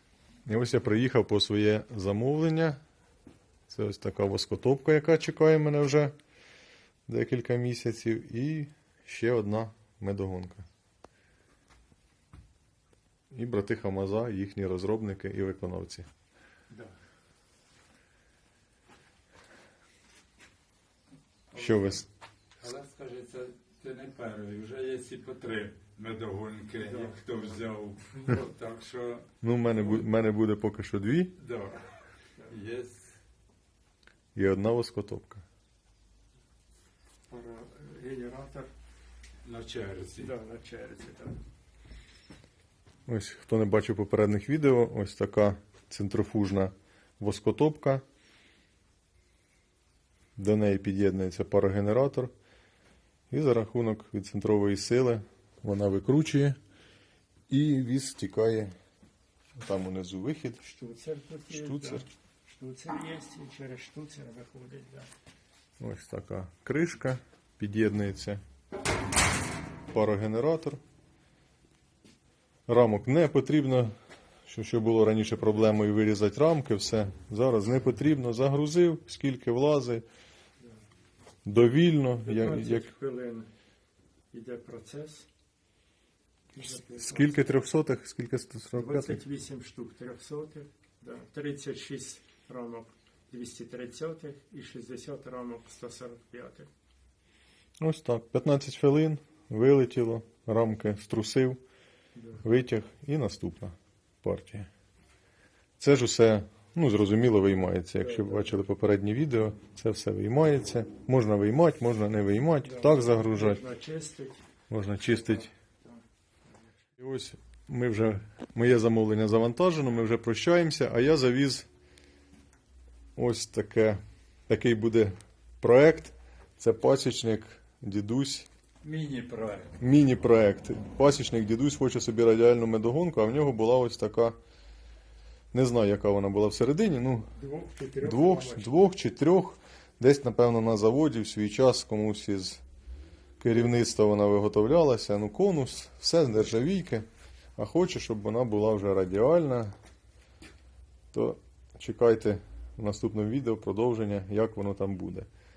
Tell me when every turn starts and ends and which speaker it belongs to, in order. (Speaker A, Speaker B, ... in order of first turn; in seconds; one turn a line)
Speaker A: 0.5-2.8
Speaker A: 3.7-6.1
Speaker A: 7.1-10.7
Speaker A: 13.3-16.1
Speaker B: 21.5-21.9
Speaker A: 21.5-22.1
Speaker B: 22.6-30.0
Speaker C: 27.0-27.4
Speaker A: 29.4-31.3
Speaker B: 31.4-31.9
Speaker B: 32.5-33.1
Speaker A: 34.3-35.4
Speaker C: 37.3-38.7
Speaker B: 39.4-40.3
Speaker C: 40.2-41.4
Speaker A: 43.1-48.0
Speaker A: 50.4-52.3
Speaker A: 53.3-56.6
Speaker A: 57.5-58.7
Speaker A: 59.6-60.6
Speaker C: 60.6-65.1
Speaker A: 61.5-62.0
Speaker A: 65.8-68.4
Speaker A: 69.9-70.8
Speaker A: 72.7-73.9
Speaker A: 74.5-80.0
Speaker A: 81.5-82.9
Speaker C: 82.2-83.5
Speaker C: 84.3-85.3
Speaker C: 86.5-87.4
Speaker A: 86.6-89.2
Speaker C: 88.7-96.7
Speaker A: 97.8-101.6
Speaker C: 102.2-102.4
Speaker A: 102.4-104.7
Speaker A: 105.8-113.6
Speaker C: 108.0-108.5
Speaker C: 112.6-114.4
Speaker A: 114.7-115.5
Speaker A: 117.0-121.7
Speaker A: 123.2-128.5
Speaker B: 128.8-129.8
Speaker A: 129.8-134.4
Speaker A: 135.5-137.3
Speaker C: 137.3-138.9
Speaker A: 138.0-142.6
Speaker A: 143.4-149.7
Speaker A: 151.1-155.3